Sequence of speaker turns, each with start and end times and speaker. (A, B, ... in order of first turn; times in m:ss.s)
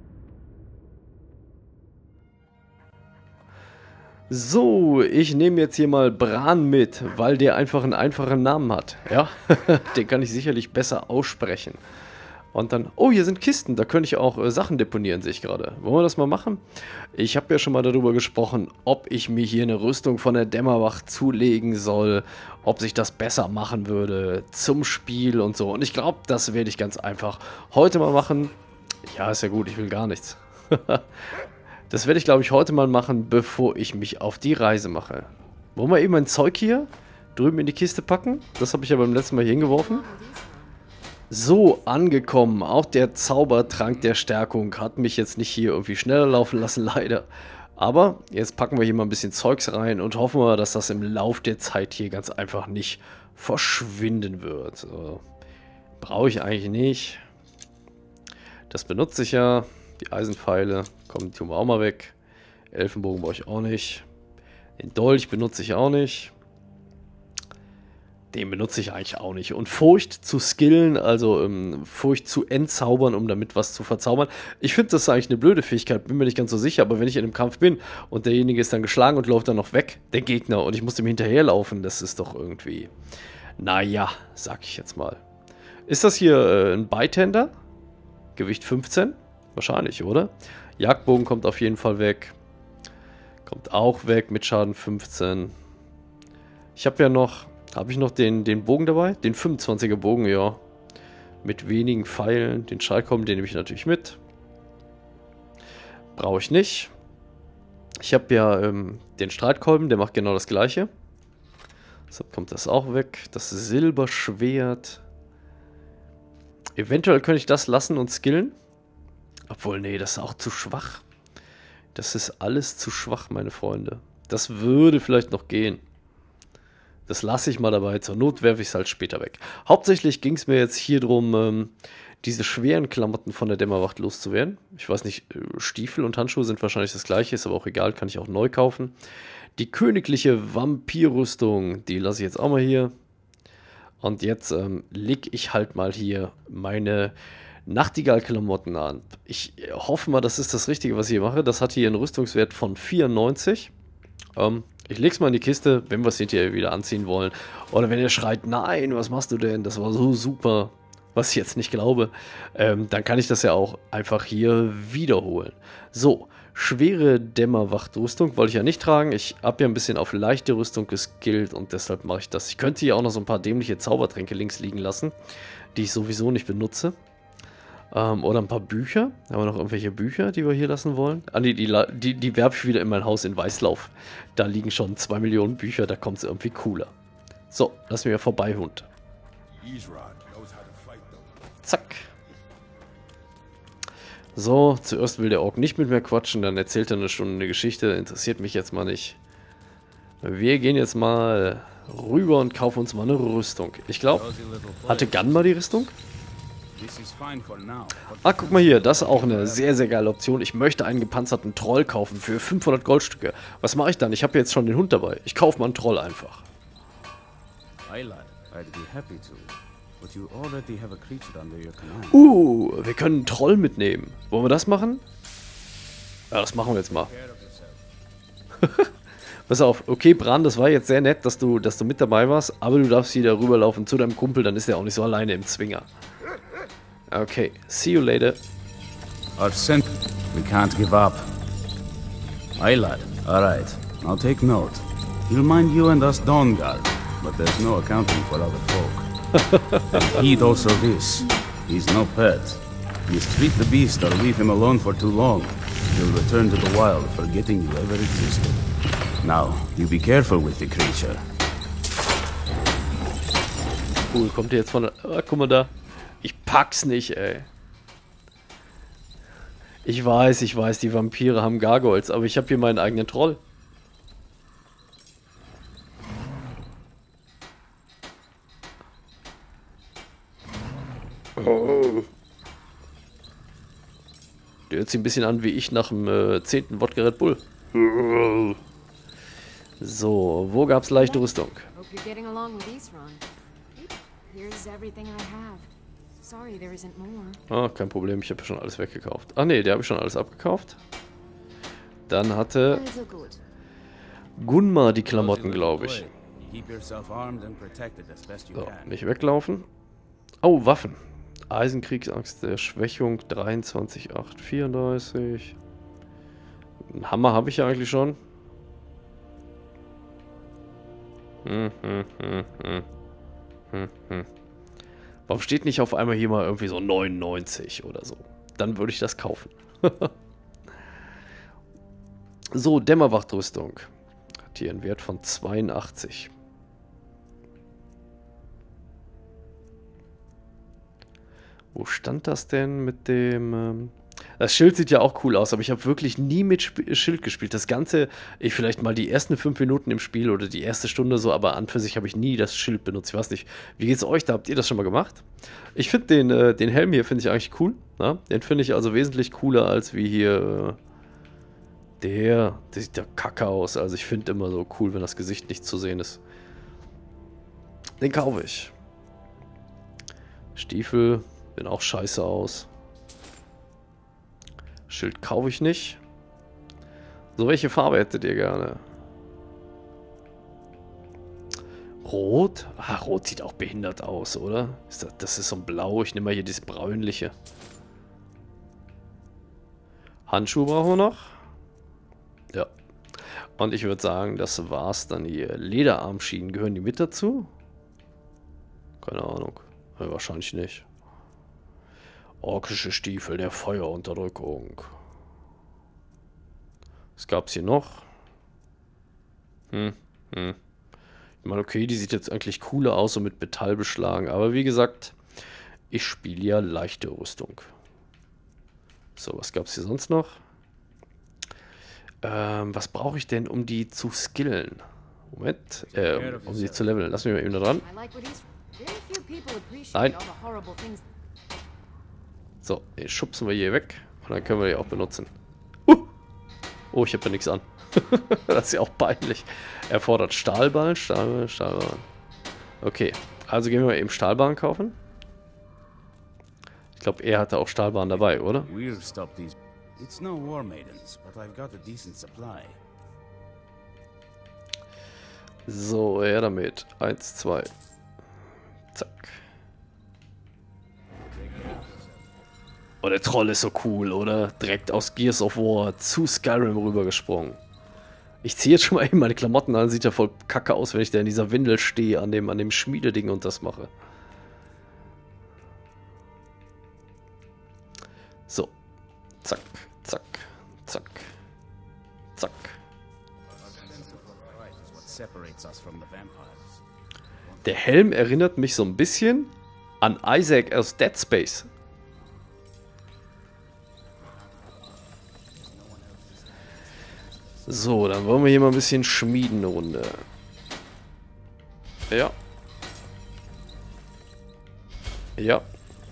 0:04.3-0:11.8 A
0:12.5-0:28.5 A
0:29.1-0:31.0 A
0:31.9-0:40.1 A
0:39.6-0:40.8 B
0:41.3-0:55.2 A
0:56.0-0:57.2 A
0:58.7-1:02.2 A
1:02.7-1:04.1 A
1:04.8-1:06.3 A
1:08.3-1:22.9 A
1:23.6-1:25.2 A
1:25.9-1:27.5 A
1:28.4-1:32.4 A
1:33.5-1:35.5 A
1:36.8-1:40.6 A
1:41.4-1:44.2 A
1:46.2-1:46.9 A
1:48.0-1:50.9 A
1:52.1-1:55.0 A
1:56.8-1:58.6 A
1:59.5-2:01.0 A
2:02.0-2:05.8 A
2:07.1-2:19.0 A
2:19.6-2:22.9 A
2:24.0-2:27.1 A
2:27.7-2:33.7 A
2:34.4-2:55.1 A
2:55.7-2:57.0 A
2:57.9-3:06.9 A
3:07.5-3:08.9 A
3:09.6-3:11.2 C
3:11.6-3:12.1 A
3:14.4-3:19.2 A
3:20.2-3:24.3 A
3:24.1-3:25.9 C
3:24.9-3:25.9 A
3:26.8-3:29.7 C
3:28.2-3:36.5 A
3:37.9-3:42.2 C
3:42.1-3:45.0 A
3:46.3-3:47.1 A
3:46.9-3:47.8 C
3:48.6-3:48.9 A
3:49.5-3:55.9 A
3:57.1-3:58.4 A
3:59.4-4:01.4 C
4:02.6-4:09.1 C
4:09.4-4:10.1 A
4:09.9-4:18.6 C
4:19.2-4:21.2 C
4:24.1-4:27.5 A
4:29.8-4:33.4 A
4:41.4-4:42.1 A
4:44.7-4:48.6 A
4:49.8-4:51.7 A
4:51.0-4:53.2 B
4:53.8-4:55.7 B
4:56.2-4:57.4 B
4:57.5-5:00.8 A
5:02.1-5:02.9 A
5:02.7-5:03.4 B
5:04.4-5:06.1 A
5:05.1-5:08.9 C
5:08.6-5:09.7 A
5:10.4-5:11.0 A
5:11.5-5:15.6 A
5:16.9-5:18.2 A
5:21.4-5:22.9 A
5:23.7-5:24.3 A
5:25.3-5:30.1 A
5:32.5-5:33.9 A
5:34.5-5:36.3 A
5:41.7-5:55.2 A
5:55.8-6:00.8 A
6:02.0-6:06.2 A
6:08.0-6:08.7 A
6:10.6-6:12.7 A
6:14.9-6:16.0 A
6:17.4-6:18.8 A
6:22.0-6:27.3 A
6:30.3-6:31.4 A
6:33.6-6:37.5 A
6:39.0-6:40.9 A
6:42.4-6:45.0 A
6:47.2-6:48.1 A
6:49.7-6:50.6 A
6:51.4-6:55.2 A
6:55.9-6:57.7 A
6:59.2-7:00.4 A
7:02.2-7:07.9 A
7:05.9-7:06.9 C
7:07.8-7:11.0 B
7:09.9-7:10.2 A
7:12.6-7:15.3 A
7:16.9-7:22.1 A
7:22.8-7:25.0 A
7:27.0-7:28.7 A
7:28.6-7:32.8 C
7:35.7-7:37.7 A
7:38.9-7:39.4 A
7:43.0-7:47.6 A
7:48.4-7:53.9 A
7:58.5-7:58.7 A
7:59.4-8:01.3 A
8:02.4-8:02.8 A
8:03.7-8:06.8 C
8:07.6-8:11.7 A
8:15.6-8:16.4 C
8:17.7-8:20.2 A
8:22.1-8:22.4 A
8:25.4-8:25.6 A